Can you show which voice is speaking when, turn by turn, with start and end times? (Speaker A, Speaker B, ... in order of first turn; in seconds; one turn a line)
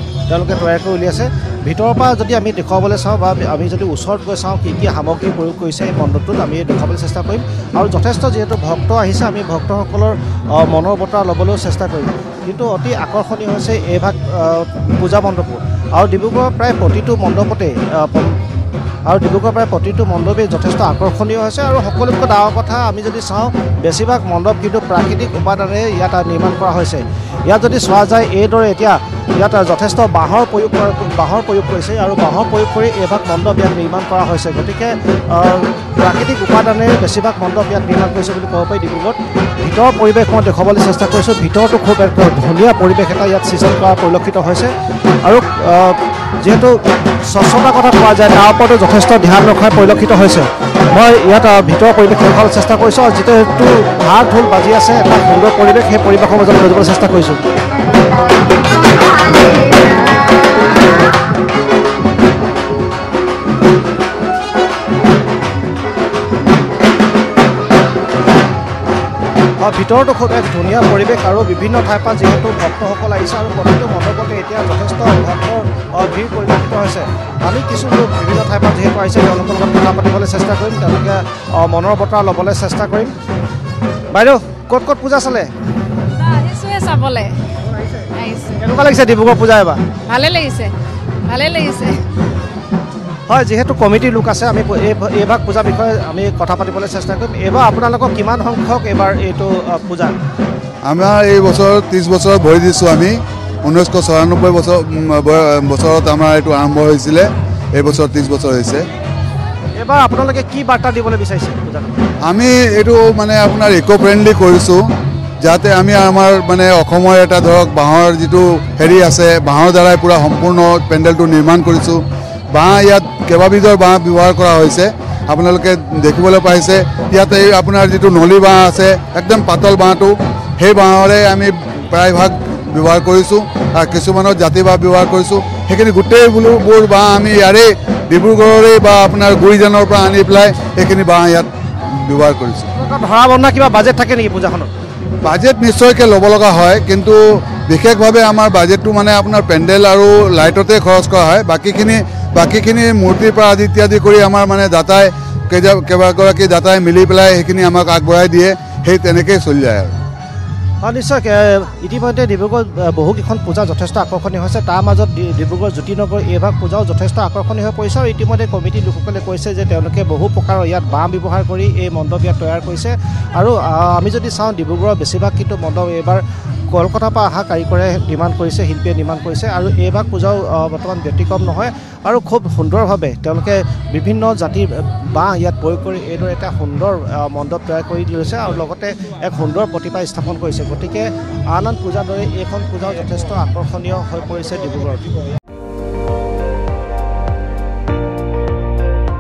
Speaker A: 0.3-18.4
Speaker A: 19.1-57.5
Speaker A: 69.6-83.1
Speaker A: 84.1-85.5
Speaker B: 86.2-87.4
Speaker B: 88.0-88.6
Speaker A: 88.5-89.9
Speaker B: 90.0-90.7
Speaker B: 91.2-92.0
Speaker A: 93.3-100.1
Speaker C: 100.9-108.8
Speaker A: 109.8-112.1
Speaker C: 112.3-114.8
Speaker C: 115.4-122.0
Speaker C: 122.5-141.5
Speaker C: 142.1-142.7
Speaker A: 142.8-144.7
Speaker C: 145.2-159.9
Speaker A: 160.8-195.1